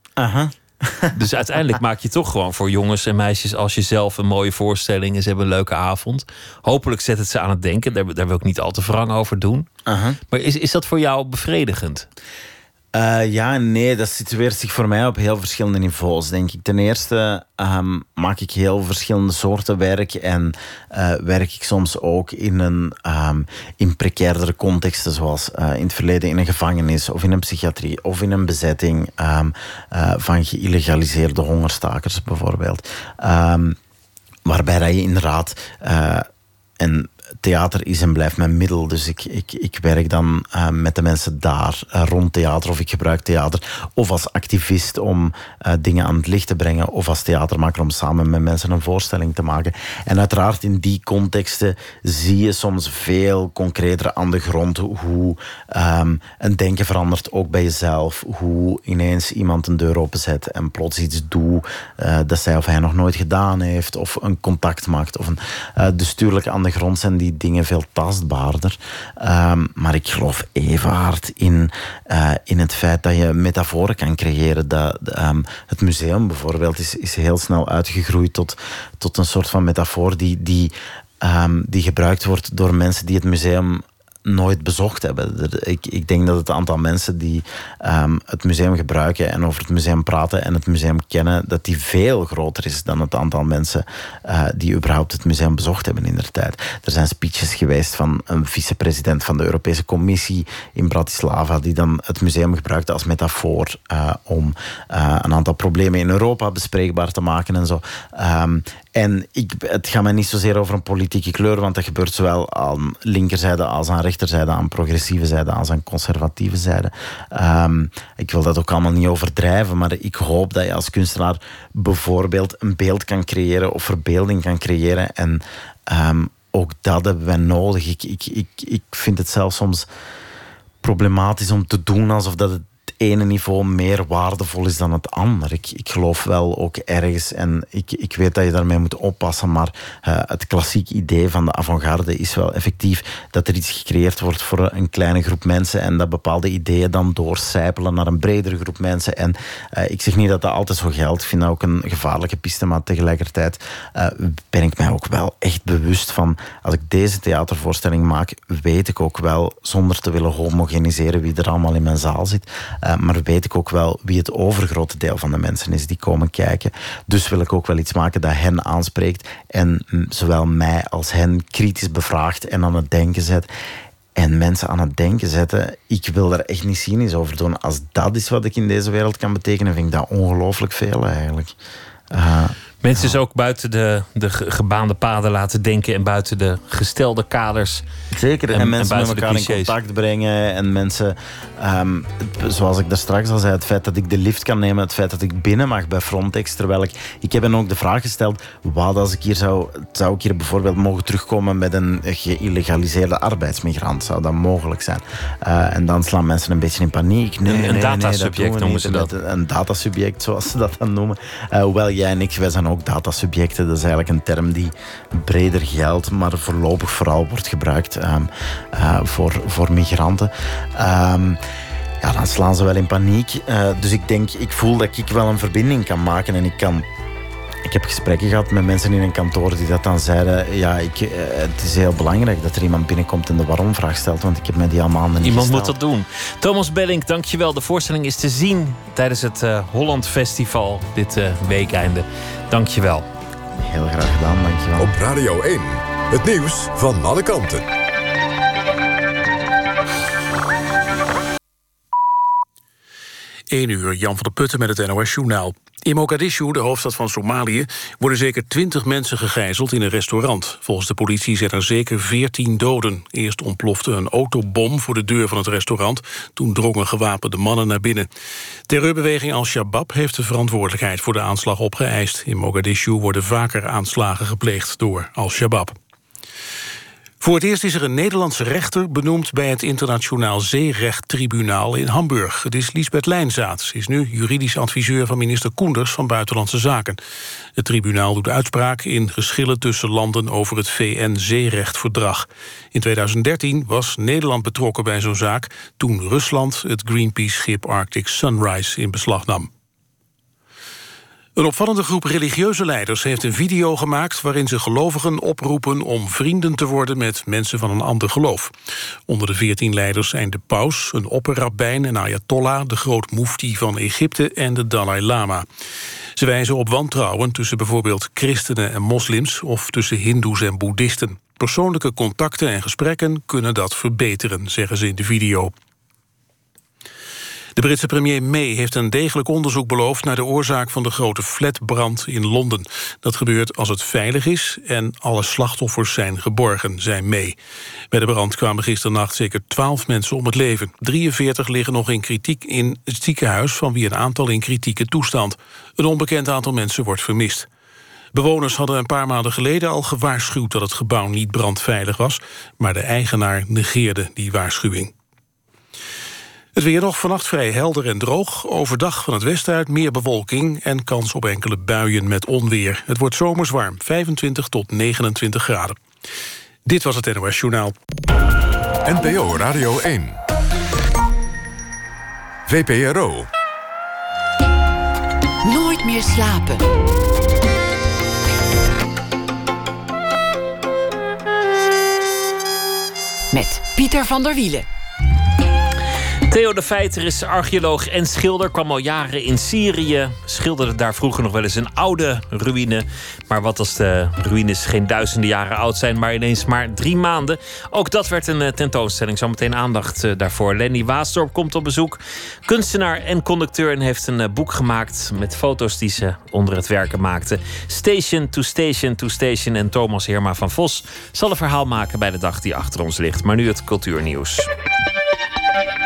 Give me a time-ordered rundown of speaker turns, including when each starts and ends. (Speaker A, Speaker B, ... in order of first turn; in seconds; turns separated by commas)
Speaker A: 0.2-1.1, Speaker B: 1.1-9.7, Speaker A: 9.9-10.2, Speaker B: 10.3-12.1, Speaker A: 12.9-33.8, Speaker A: 34.5-36.3, Speaker A: 36.8-129.9, Speaker A: 130.8-173.5, Speaker A: 174.2-181.6, Speaker A: 182.1-183.2, Speaker B: 182.8-187.8, Speaker A: 188.1-221.4, Speaker B: 188.5-189.7, Speaker B: 207.5-209.1, Speaker A: 222.0-226.9, Speaker A: 227.7-235.8, Speaker B: 235.2-243.1, Speaker A: 243.6-244.9, Speaker C: 244.8-247.7, Speaker D: 253.5-268.1, Speaker D: 268.7-275.8, Speaker D: 277.2-287.0, Speaker D: 287.6-299.5, Speaker D: 301.4-308.5, Speaker D: 309.1-315.5, Speaker D: 316.2-325.5, Speaker D: 327.6-337.4, Speaker D: 337.9-347.5, Speaker D: 348.1-354.9, Speaker D: 356.6-365.8, Speaker D: 366.6-367.8, Speaker C: 368.9-370.2, Speaker C: 372.5-373.3, Speaker E: 375.4-376.7, Speaker E: 383.3-384.7, Speaker B: 386.3-414.5